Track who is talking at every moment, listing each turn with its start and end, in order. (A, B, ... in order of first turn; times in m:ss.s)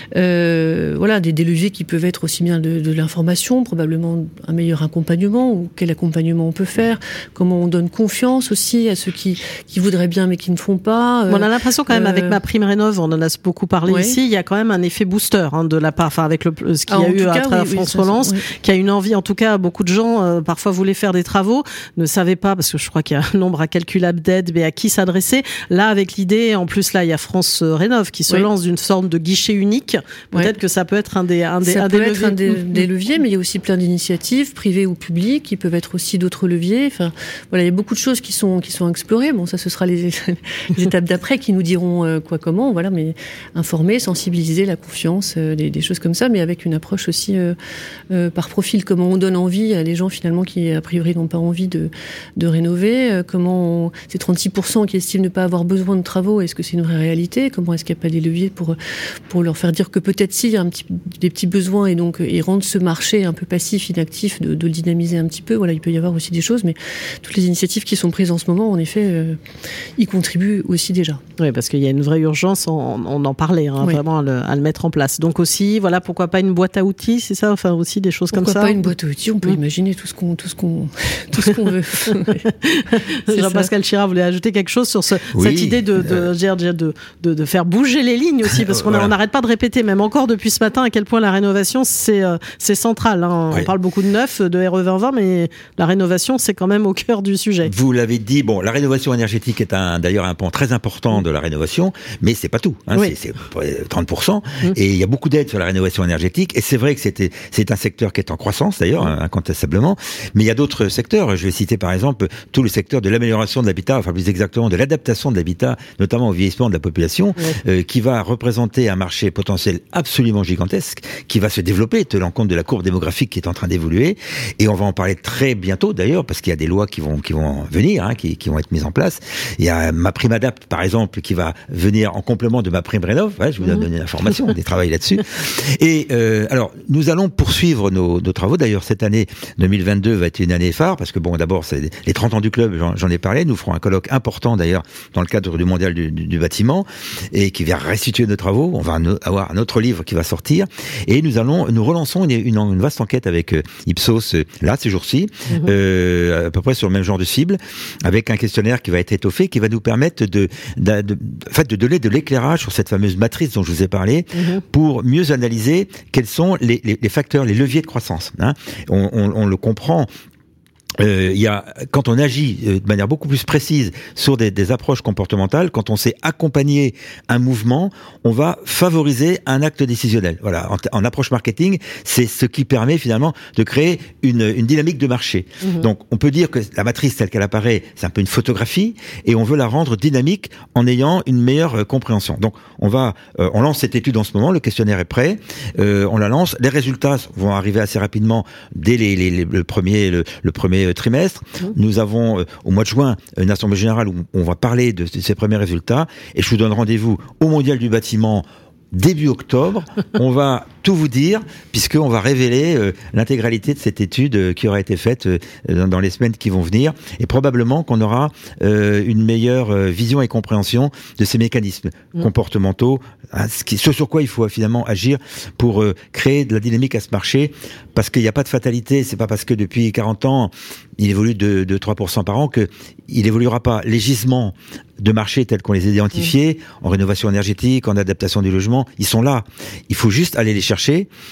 0:00.1-0:12.4 A
0:11.3-0:32.8 B
0:13.8-0:14.2 A
0:16.9-0:18.4 A
0:31.6-0:47.5 A
0:48.1-0:58.8 A
0:59.3-1:09.4 A
1:10.0-1:11.2 A
1:11.4-1:18.8 B
1:18.3-1:22.4 A
1:22.1-1:37.7 B
1:23.3-1:23.7 A
1:25.3-1:26.2 C
1:28.5-1:29.1 C
1:37.6-2:50.1 C
2:44.4-2:44.6 B
2:51.0-4:01.1 C